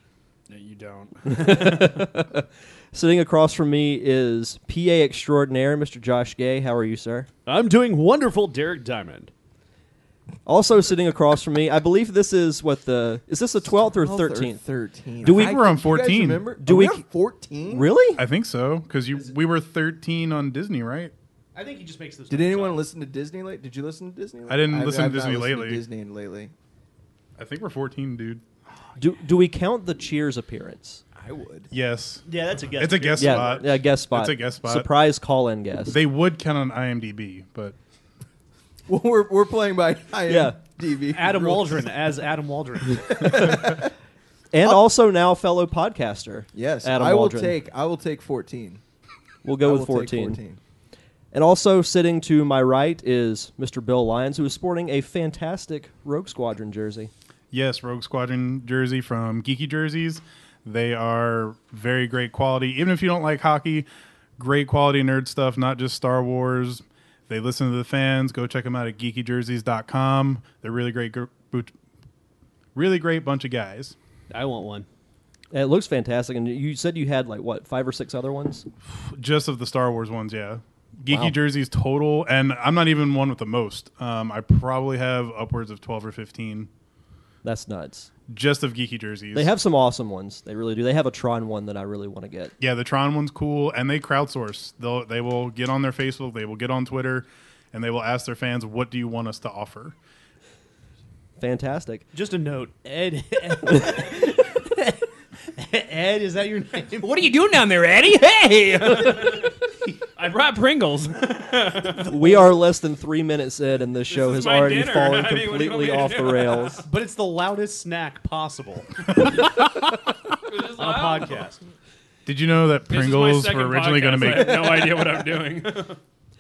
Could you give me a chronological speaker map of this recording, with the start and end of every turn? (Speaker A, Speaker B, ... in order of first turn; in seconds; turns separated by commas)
Speaker A: 0.5-2.0, Speaker B: 1.2-7.3, Speaker C: 7.5-9.3, Speaker B: 10.4-14.6, Speaker D: 13.7-17.9, Speaker B: 15.2-15.6, Speaker E: 15.2-16.5, Speaker B: 16.6-17.0, Speaker B: 17.7-18.2, Speaker E: 18.1-21.1, Speaker C: 21.5-22.8, Speaker D: 22.3-26.5, Speaker E: 24.5-25.8, Speaker E: 27.4-28.4, Speaker B: 29.0-31.0, Speaker D: 31.1-31.7, Speaker E: 31.7-32.2, Speaker C: 32.2-33.6, Speaker E: 32.8-34.9, Speaker B: 33.2-36.0, Speaker E: 35.9-37.7, Speaker D: 38.9-41.9, Speaker B: 40.3-40.6, Speaker C: 41.1-43.6, Speaker D: 43.1-43.9, Speaker B: 44.5-47.5, Speaker D: 46.5-48.8, Speaker B: 49.4-50.4, Speaker D: 49.6-50.6, Speaker B: 51.3-57.1, Speaker E: 57.5-63.9, Speaker E: 64.4-71.7, Speaker E: 72.7-74.0, Speaker C: 74.3-74.9, Speaker B: 75.5-78.7, Speaker E: 78.9-86.7, Speaker B: 81.1-81.3, Speaker B: 87.4-88.1, Speaker E: 88.3-89.5, Speaker B: 89.3-92.5, Speaker E: 92.6-100.0, Speaker B: 101.4-102.0, Speaker C: 102.1-107.2, Speaker A: 107.0-109.6, Speaker A: 110.1-112.4, Speaker C: 111.9-112.4, Speaker B: 112.1-116.8, Speaker A: 114.1-116.8, Speaker C: 116.8-119.2, Speaker E: 119.2-119.8, Speaker A: 120.4-121.4, Speaker C: 120.6-121.6, Speaker E: 122.2-125.0, Speaker A: 122.9-126.0